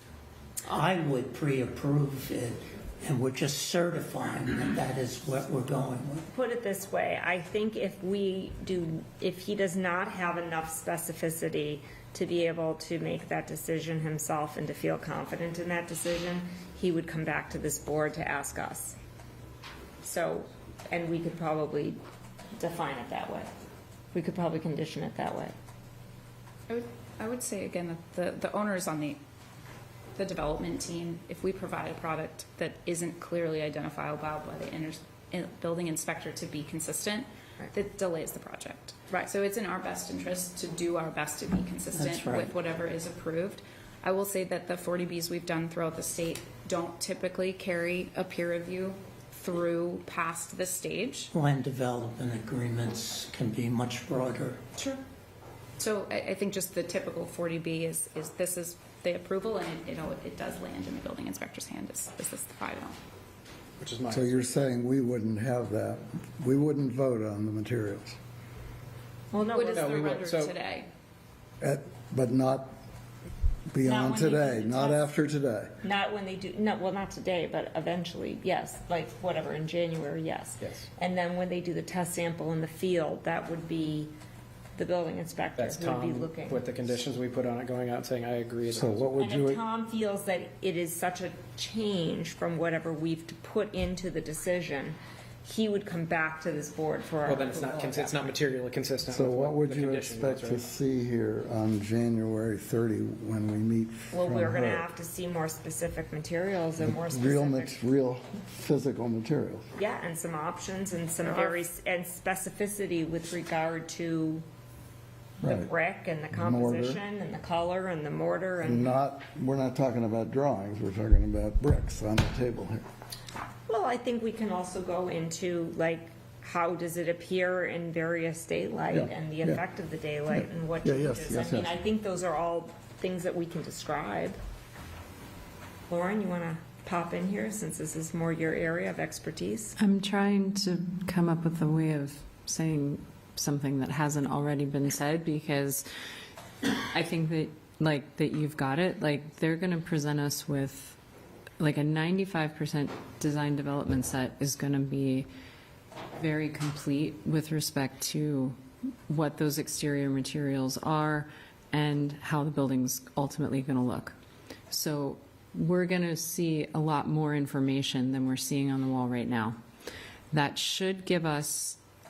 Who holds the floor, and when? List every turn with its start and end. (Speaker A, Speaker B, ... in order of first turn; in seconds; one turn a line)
Speaker A: 0.7-6.3
Speaker B: 6.3-18.9
Speaker B: 20.0-22.0
Speaker B: 22.6-23.5
Speaker B: 24.1-25.5
Speaker C: 26.7-29.2
Speaker C: 30.1-51.3
Speaker A: 41.9-42.5
Speaker A: 51.3-54.6
Speaker C: 55.8-63.0
Speaker D: 63.8-64.5
Speaker E: 64.1-68.2
Speaker B: 69.3-70.0
Speaker C: 69.5-70.9
Speaker D: 69.7-70.5
Speaker E: 71.6-72.7
Speaker E: 73.7-75.8
Speaker B: 73.8-75.0
Speaker B: 75.8-84.1
Speaker B: 84.8-86.6
Speaker D: 85.5-89.2
Speaker E: 88.7-89.6
Speaker B: 89.2-98.3
Speaker D: 97.2-100.6
Speaker E: 99.1-104.9
Speaker B: 104.1-107.8
Speaker E: 106.8-109.7
Speaker B: 109.8-114.4
Speaker C: 111.2-111.5
Speaker B: 115.4-118.9
Speaker E: 115.4-115.7
Speaker E: 116.3-117.0
Speaker E: 118.6-122.8
Speaker B: 123.7-134.4
Speaker E: 128.9-129.6
Speaker E: 130.3-131.7
Speaker B: 135.9-139.7
Speaker F: 139.8-145.9
Speaker F: 146.7-150.9
Speaker F: 151.6-155.3
Speaker F: 156.2-158.6
Speaker F: 159.1-164.2
Speaker F: 164.7-169.6
Speaker F: 170.3-171.8